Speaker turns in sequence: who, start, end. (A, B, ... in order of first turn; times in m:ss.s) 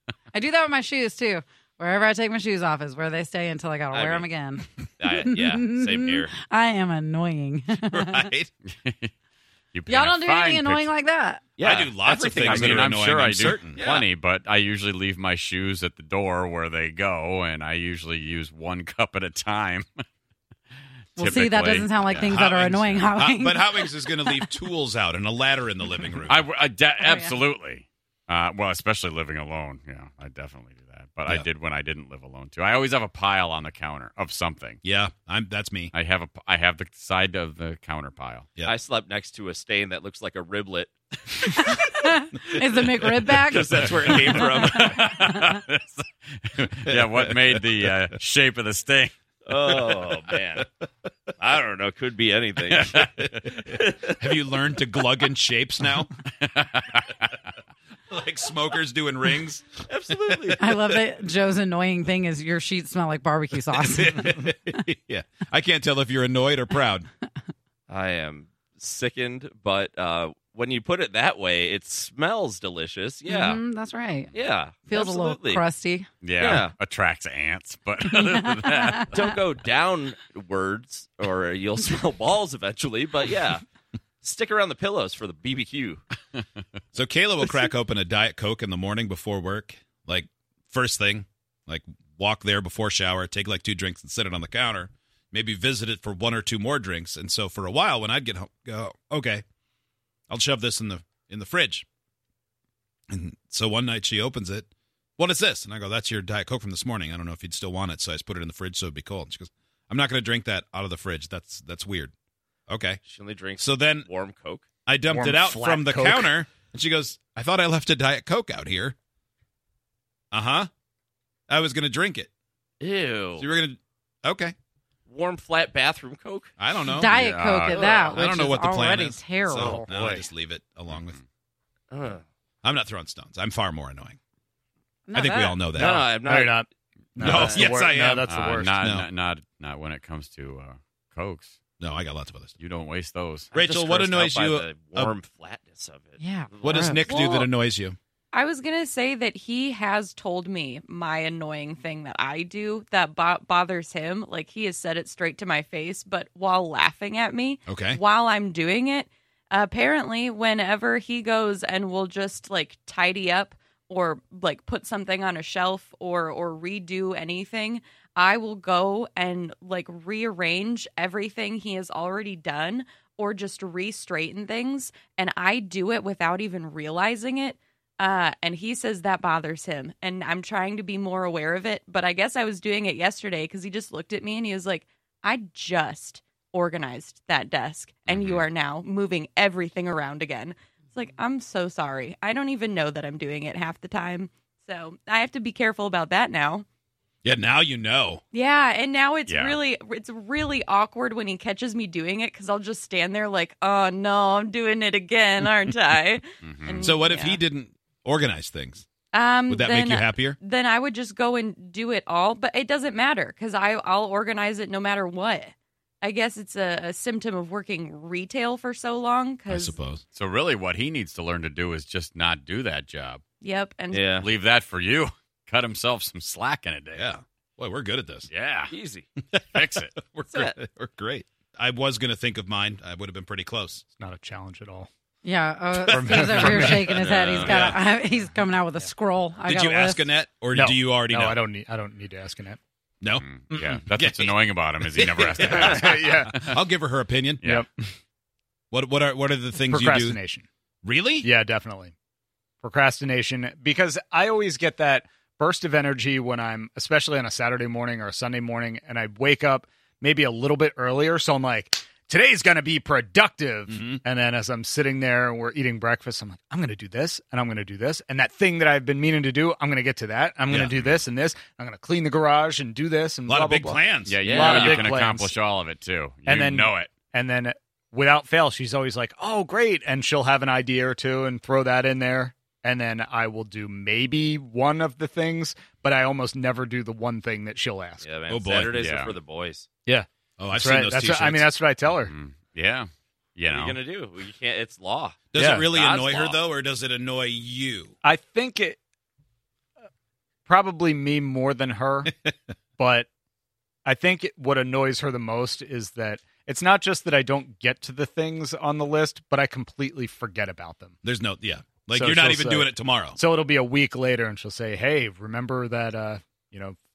0:00.3-0:08.3 A
0:03.9-0:04.3 B
0:05.0-0:06.3 B
0:07.9-0:08.5 C
0:08.7-0:09.1 D
0:09.7-0:10.9 D
0:09.9-0:11.4 A
0:11.6-0:13.0 B
0:11.6-0:14.1 C
0:12.4-0:20.0 D
0:21.2-0:22.4 D
0:21.2-0:24.5 A
0:22.3-0:26.4 C
0:26.3-0:34.8 D
0:27.0-0:27.4 A
0:34.8-0:35.9 C
0:35.9-0:38.5 D
0:38.6-0:40.9 B
0:41.4-0:45.6 A
0:43.5-0:45.0 B
0:43.9-0:49.1 D
0:46.9-0:47.6 C
0:49.5-0:50.6 B
0:49.7-0:50.1 C
0:51.4-0:53.0 B
0:52.7-0:53.5 D
0:52.9-0:56.1 C
0:53.8-0:54.1 B
0:56.4-0:57.3 D
0:58.1-0:59.7 C
0:59.9-1:00.9 B
1:00.6-1:04.8 A
1:03.8-1:07.1 C
1:07.9-1:13.6 B
1:13.3-1:16.1 A
1:14.3-1:15.6 B
1:16.2-1:19.2 D
1:16.4-1:16.8 B
1:18.1-1:19.3 A
1:19.1-1:23.6 B
1:24.2-1:26.0 B
1:26.9-1:39.4 C
1:40.3-1:41.9 C
1:43.1-1:52.1 C
1:52.7-1:53.0 C
1:53.1-1:54.6 B
1:53.6-1:54.1 C
1:54.8-1:59.0 C
1:55.1-1:56.3 E
2:00.3-2:00.7 C
2:01.5-2:02.3 C
2:02.8-2:03.5 B
2:03.4-2:04.5 C
2:05.1-2:06.5 B
2:06.6-2:07.2 C
2:06.8-2:09.9 A
2:07.1-2:07.8 D
2:07.7-2:08.2 B
2:08.1-2:11.2 C
2:09.6-2:10.3 B
2:10.9-2:11.2 D
2:11.9-2:12.2 B
2:12.6-2:14.2 C
2:15.1-2:15.6 A
2:15.1-2:16.1 C
2:15.8-2:16.7 B
2:16.1-2:18.7 E
2:17.2-2:19.1 C
2:18.3-2:21.6 D
2:21.8-2:22.5 C
2:22.6-2:23.5 D
2:23.5-2:25.1 C
2:23.6-2:27.1 B
2:26.2-2:26.5 A
2:26.6-2:28.0 C
2:27.1-2:27.5 F
2:28.3-3:16.6 F
2:37.7-2:38.0 C
3:08.0-3:08.5 D
3:17.2-3:18.2 C
3:18.3-3:27.4 F
3:19.3-3:19.6 D
3:26.4-3:26.8 D
3:26.8-3:28.8 C
3:29.1-3:39.8 F
3:29.5-3:30.4 C
3:39.5-3:40.0 C
3:40.2-3:43.2 D
3:43.4-3:44.1 F
3:43.9-3:44.3 B
3:44.1-3:47.1 D
3:47.0-3:48.3 C
3:48.3-3:48.7 D
3:48.7-3:49.1 B
3:49.5-3:50.0 D
3:50.0-3:53.8 C
3:54.0-3:54.9 E
3:55.2-4:00.1 A
3:55.8-3:57.8 C
3:55.9-3:56.9 E
3:57.0-3:57.4 B
3:57.2-3:57.6 D
3:59.4-4:01.4 C
4:00.5-4:02.6 E
4:03.0-4:03.3 C
4:03.2-4:06.5 D
4:04.0-4:07.5 C
4:05.2-4:06.4 E
4:07.4-4:07.9 E
4:08.7-4:10.2 C
4:09.7-4:10.5 E
4:10.8-4:11.3 C
4:11.2-4:11.9 E
4:12.6-4:35.3 E
4:23.7-4:24.0 C
4:30.5-4:31.0 C
4:33.3-4:34.9 C
4:34.1-4:36.9 D
4:34.2-4:34.5 B
4:36.2-4:48.0 E
4:48.0-4:49.7 B
4:48.3-4:48.8 C
4:48.7-4:49.2 D
4:49.9-4:52.1 E
4:50.4-4:51.5 C
4:51.9-4:53.8 D
4:53.5-4:56.4 B
4:55.3-4:57.9 C
4:55.3-4:55.7 E
4:58.0-4:58.8 E
5:00.5-5:02.1 E
5:02.8-5:03.1 E
5:03.8-5:11.0 E
5:11.0-5:13.2 C
5:11.9-5:16.8 E